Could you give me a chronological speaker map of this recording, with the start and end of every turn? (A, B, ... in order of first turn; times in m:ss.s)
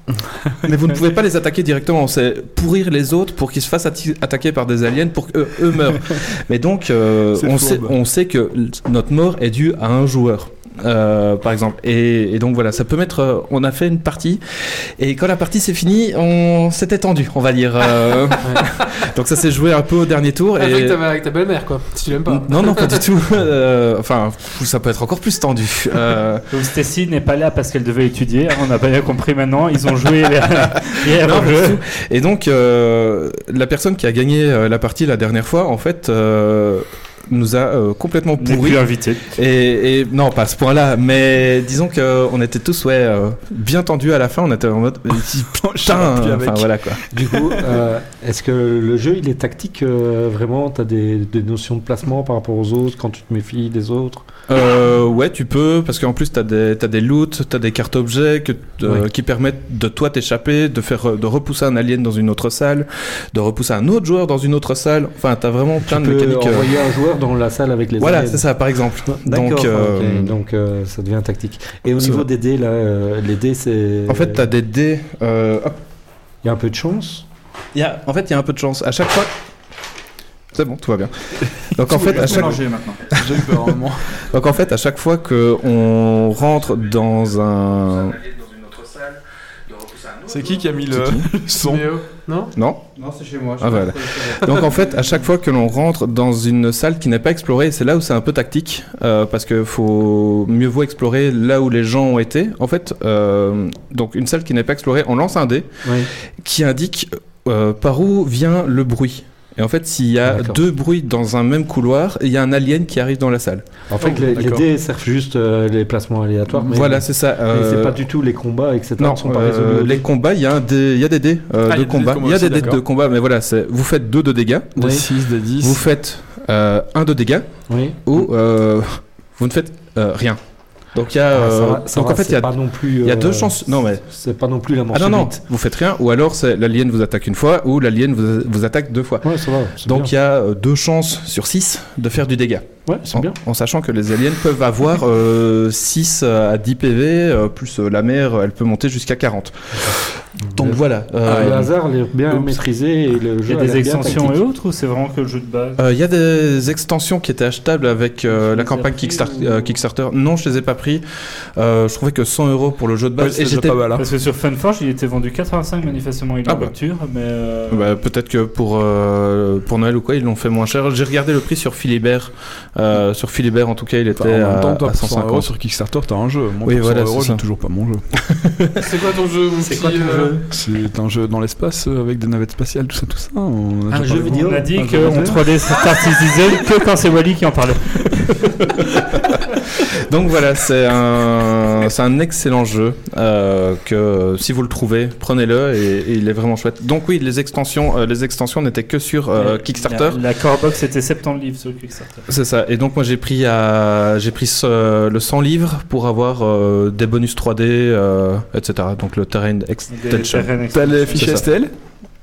0:00.6-0:21.0 A
0:07.4-0:07.9 B
0:18.4-0:18.7 C
0:20.6-0:23.0 C
0:22.3-0:26.5 A
0:26.5-0:31.8 D
0:31.1-0:47.0 A
0:38.4-0:39.3 D
0:45.1-0:47.7 B
0:47.1-0:54.2 E
0:54.5-1:06.7 A
1:05.8-1:08.4 E
1:08.0-1:10.4 A
1:09.1-1:14.5 E
1:12.0-1:12.2 A
1:14.1-1:15.8 A
1:16.4-1:17.2 E
1:17.7-1:19.3 A
1:20.5-1:22.6 A
1:21.9-1:23.1 F
1:22.2-1:22.6 B
1:23.1-1:24.2 B
1:23.1-1:29.2 A
1:29.7-1:30.2 A
1:30.3-1:32.0 B
1:30.9-1:31.3 A
1:31.5-1:32.6 C
1:32.6-1:32.8 A
1:33.0-1:35.2 F
1:33.6-1:53.6 A
1:45.8-1:46.1 E
1:50.3-1:50.6 E
1:53.9-2:00.0 E
1:54.3-1:54.7 B
1:56.6-1:58.0 A
1:59.0-2:04.8 A
2:01.6-2:02.8 B
2:04.8-2:05.8 B
2:04.8-2:05.1 E
2:05.6-2:14.0 A
2:07.7-2:08.0 E
2:11.3-2:15.4 E
2:14.9-2:31.7 A
2:19.2-2:20.1 E
2:22.9-2:23.4 E
2:29.7-2:34.4 E
2:31.2-2:31.7 B
2:32.3-2:32.6 B
2:33.5-2:35.8 D
2:35.8-2:41.0 A
2:38.3-2:39.8 D
2:41.6-2:43.8 A
2:43.2-2:44.0 B
2:44.0-2:47.9 D
2:46.4-2:46.7 A
2:47.7-2:55.5 A
2:54.1-2:58.0 B
2:56.6-2:57.4 A
2:58.3-2:58.8 A
2:58.8-3:00.3 C
2:59.6-3:00.4 E
3:00.5-3:05.6 B
3:03.9-3:05.4 E
3:04.4-3:08.6 D
3:05.7-3:06.2 C
3:08.4-3:09.2 A
3:09.9-3:20.2 A
3:19.4-3:22.2 D
3:22.3-3:30.6 A
3:29.9-3:31.4 D
3:30.7-3:31.7 B
3:31.1-3:31.5 A